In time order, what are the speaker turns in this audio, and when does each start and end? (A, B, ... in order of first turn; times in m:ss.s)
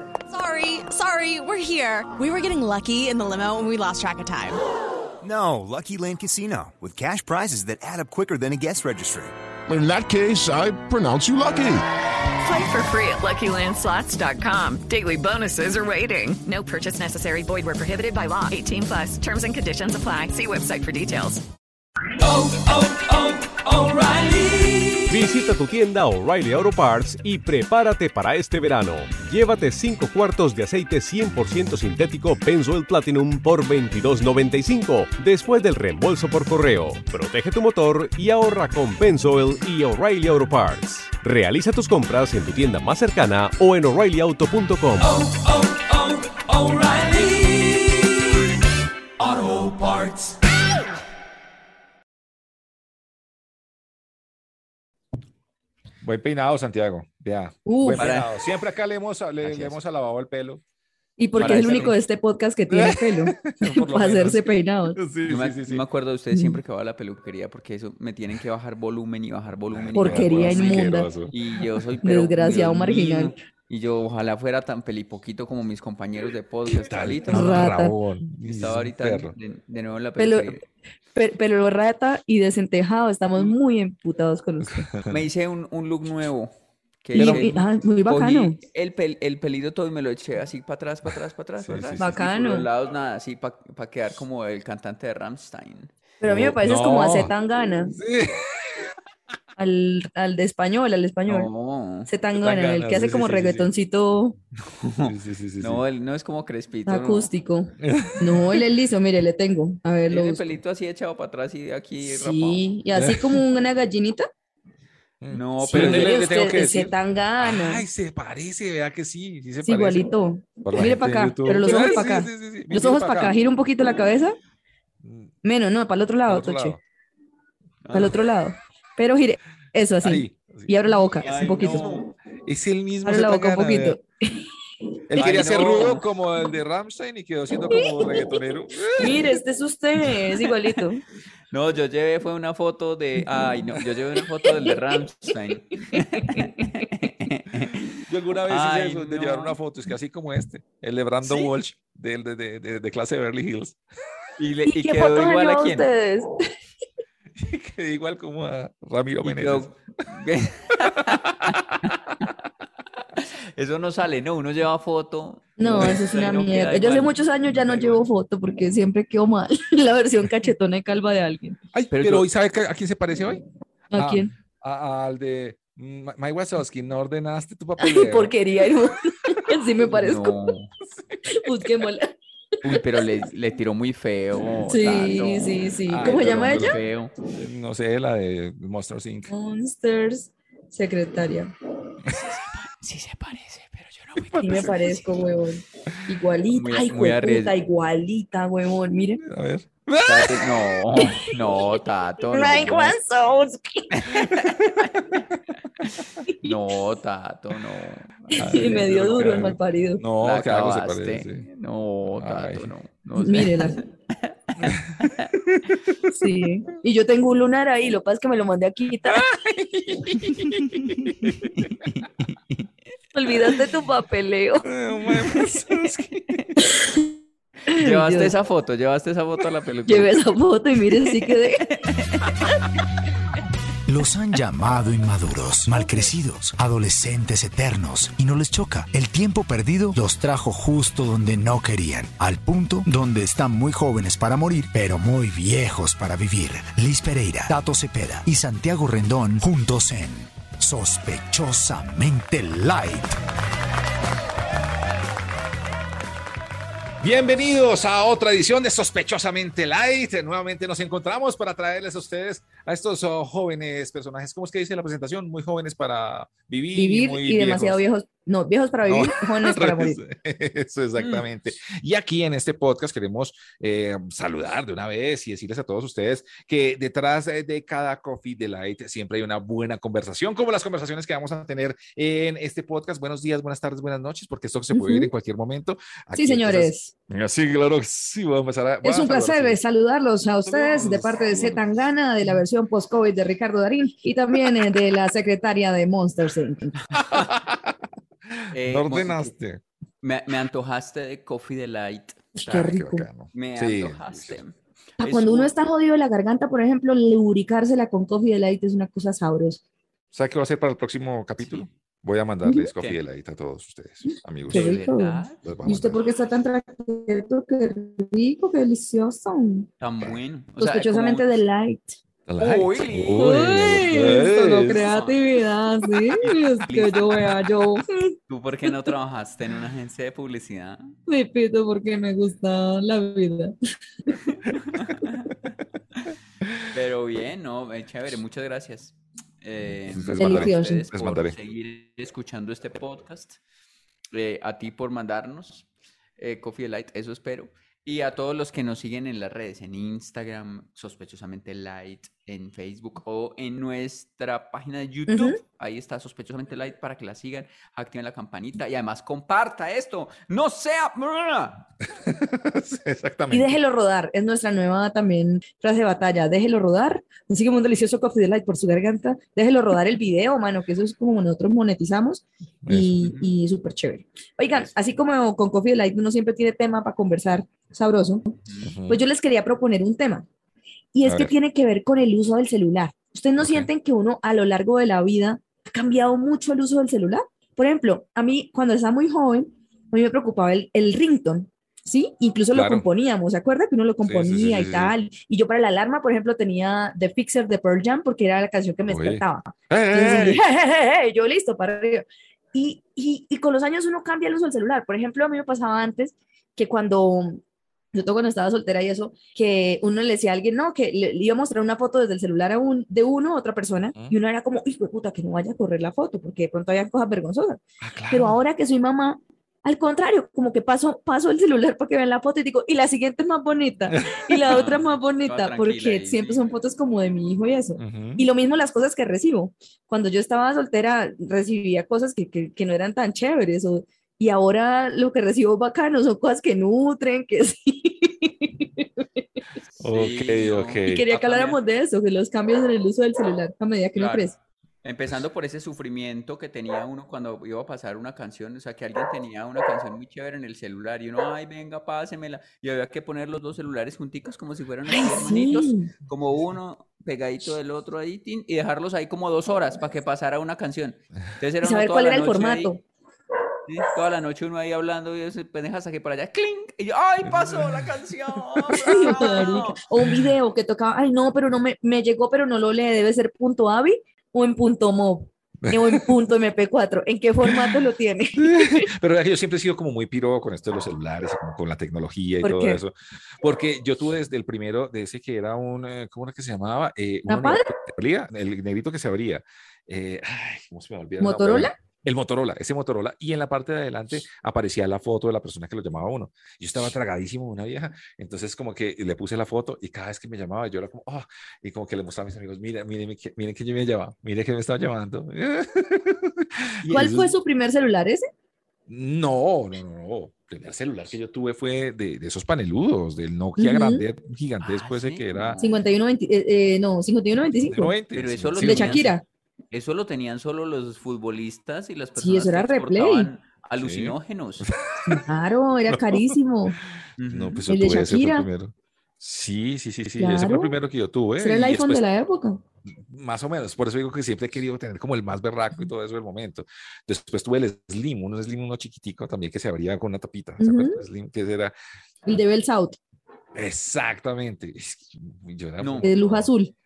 0:00.3-0:04.6 A
0:05.2-0:09.4 B
0:09.7-0:11.8 C
0:12.4-0:21.4 D
0:22.2-0:24.9 E
0:25.1-0:45.2 F
0:45.3-0:48.0 E
0:49.2-0:50.3 E
0:56.0-1:00.6 G
0:57.7-0:58.1 H
0:58.0-0:58.3 E
0:59.4-0:59.8 E
1:01.2-1:05.0 H
1:01.4-1:01.9 G
1:01.4-1:02.0 E
1:02.7-1:05.8 G
1:05.3-1:17.8 E
1:06.3-1:06.6 H
1:09.7-1:11.3 G
1:10.0-1:11.1 H
1:12.0-1:13.3 H
1:16.7-1:19.4 G
1:17.3-1:17.9 H
1:18.4-1:20.6 E
1:20.2-1:20.6 H
1:21.2-1:24.9 H
1:25.1-1:26.5 E
1:27.0-1:35.9 E
1:27.1-1:28.6 H
1:27.2-1:27.6 G
1:31.6-1:32.2 G
1:32.0-1:32.7 H
1:36.2-1:38.0 H
1:36.2-1:37.3 G
1:37.9-1:38.9 G
1:39.6-1:41.5 H
1:41.3-1:42.1 E
1:42.1-1:44.4 H
1:42.4-1:43.7 G
1:44.7-1:47.3 E
1:45.0-1:45.8 G
1:46.9-1:50.4 H
1:47.8-1:48.7 G
1:50.1-1:52.6 E
1:52.0-1:54.3 H
1:52.9-1:53.4 G
1:55.2-2:00.1 G
1:55.3-1:56.2 E
1:55.7-1:57.8 H
1:59.6-2:04.4 H
2:00.6-2:03.4 G
2:01.6-2:02.0 E
2:05.0-2:05.3 G
2:05.4-2:06.8 H
2:06.3-2:06.8 G
2:07.8-2:08.2 E
2:07.9-2:12.0 H
2:10.0-2:10.8 G
2:11.2-2:12.1 E
2:11.6-2:14.0 G
2:13.1-2:14.4 H
2:15.1-2:19.4 G
2:15.2-2:16.1 E
2:17.7-2:18.2 H
2:19.0-2:21.0 H
2:21.5-2:29.6 E
2:24.5-2:24.8 H
2:25.9-2:26.5 H
2:28.0-2:33.8 G
2:31.2-2:31.5 E
2:34.4-2:35.9 E
2:34.7-2:36.4 H
2:37.4-2:39.7 G
2:39.2-2:42.3 E
2:40.8-2:41.9 G
2:43.2-2:48.0 E
2:45.6-2:51.6 H
2:51.7-2:53.4 G
2:51.9-2:52.3 E
2:53.9-2:54.3 H
2:54.0-2:58.3 G
2:57.8-3:00.3 H
2:59.8-3:00.7 E
3:01.3-3:02.1 H
3:02.6-3:07.1 E
3:04.7-3:06.8 H
3:05.9-3:06.8 G
3:07.3-3:09.3 G
3:09.3-3:11.5 H
3:12.1-3:15.0 E
3:14.2-3:15.0 G
3:14.4-3:19.2 H
3:16.5-3:17.6 E
3:19.2-3:20.6 G
3:20.0-3:23.0 E
3:22.3-3:24.3 H
3:23.9-3:25.3 E
3:25.8-3:29.4 E
3:28.3-3:31.5 G
3:28.4-3:30.0 H
3:30.2-3:35.4 E
3:32.2-3:32.7 G
3:33.2-3:33.8 H
3:34.6-3:35.7 G
3:36.1-3:39.4 H
3:39.1-3:41.6 G
3:39.9-3:40.3 H
3:40.8-3:42.7 E
3:43.1-3:45.5 H
3:44.6-3:46.1 G
3:46.2-3:46.6 E
3:46.6-3:47.2 H
3:47.7-3:48.3 H
3:47.8-3:50.1 E
3:49.9-3:51.6 H
3:51.6-3:52.5 E
3:53.9-4:13.2 I
4:17.0-4:27.8 G
4:26.8-4:30.0 H
4:28.8-4:49.6 G
4:31.0-4:31.2 E
4:44.7-4:45.1 H
4:46.2-4:46.9 H
4:48.8-4:56.8 H
4:50.4-4:51.6 G
4:57.0-4:57.8 G
4:57.0-4:57.3 E
4:58.3-4:59.6 G
4:58.5-4:59.3 E
5:00.0-5:02.4 E
5:02.4-5:03.1 H
5:02.4-5:04.4 G
5:03.3-5:05.5 E
5:05.0-5:09.6 H
5:10.1-5:14.8 G
5:11.4-5:11.7 E
5:12.4-5:12.7 H
5:14.5-5:15.4 E
5:14.5-5:19.7 H
5:15.4-5:16.0 G
5:19.8-5:21.3 E
5:20.6-5:22.0 H
5:22.3-5:24.9 G
5:22.4-5:23.9 E
5:23.2-5:28.1 H
5:24.8-5:25.2 E
5:26.2-5:27.4 E
5:28.3-5:30.9 E
5:31.1-5:33.6 H
5:34.3-5:35.4 E
5:36.7-5:43.4 E
5:39.9-5:41.3 G
5:40.2-5:40.8 H
5:44.1-5:45.7 E
5:46.2-6:01.7 E
5:55.1-5:55.4 H
6:02.0-6:03.6 G
6:03.3-6:18.4 H
6:12.6-6:13.0 G
6:13.0-6:13.3 E
6:18.4-6:18.7 E
6:18.6-6:19.0 G
6:18.9-6:20.3 H
6:20.9-6:47.4 H
6:21.0-6:21.3 G
6:23.4-6:23.7 G
6:32.5-6:32.9 G
6:34.0-6:35.0 G
6:38.9-6:40.5 G
6:47.9-6:57.6 H
6:57.8-6:58.4 G
6:58.1-7:19.2 H
7:03.9-7:04.6 G
7:04.4-7:06.5 E
7:07.8-7:08.3 G
7:19.8-7:21.6 E
7:19.8-7:21.1 G
7:20.8-7:24.4 H
7:24.0-7:42.8 E
7:34.9-7:35.9 H
7:41.6-7:42.8 H
7:43.7-7:49.8 E
7:47.2-7:49.4 G
7:48.8-7:58.9 H
7:55.6-7:56.2 G
7:57.4-7:57.8 G
7:58.4-8:27.4 G
8:02.4-8:02.8 H
8:07.3-8:07.7 H
8:11.2-8:11.8 H
8:26.8-8:27.1 E
8:26.9-8:28.3 H
8:28.9-8:35.6 G
8:33.6-8:34.0 H
8:34.6-8:35.7 E
8:35.6-8:37.9 H
8:37.7-8:39.2 G
8:38.2-8:39.1 E
8:38.6-8:39.2 H
8:39.7-8:44.7 E
8:42.2-8:43.3 H
8:43.8-8:45.2 G
8:45.1-8:46.8 H
8:45.9-8:46.4 G
8:47.2-8:47.7 E
8:47.3-8:52.0 G
8:47.7-8:48.5 H
8:50.2-8:50.8 H
8:51.4-8:52.6 H
8:52.9-9:01.8 G
9:00.6-9:01.0 H
9:02.3-9:03.0 H
9:03.6-9:06.5 G
9:05.8-9:06.1 E
9:06.0-9:06.7 H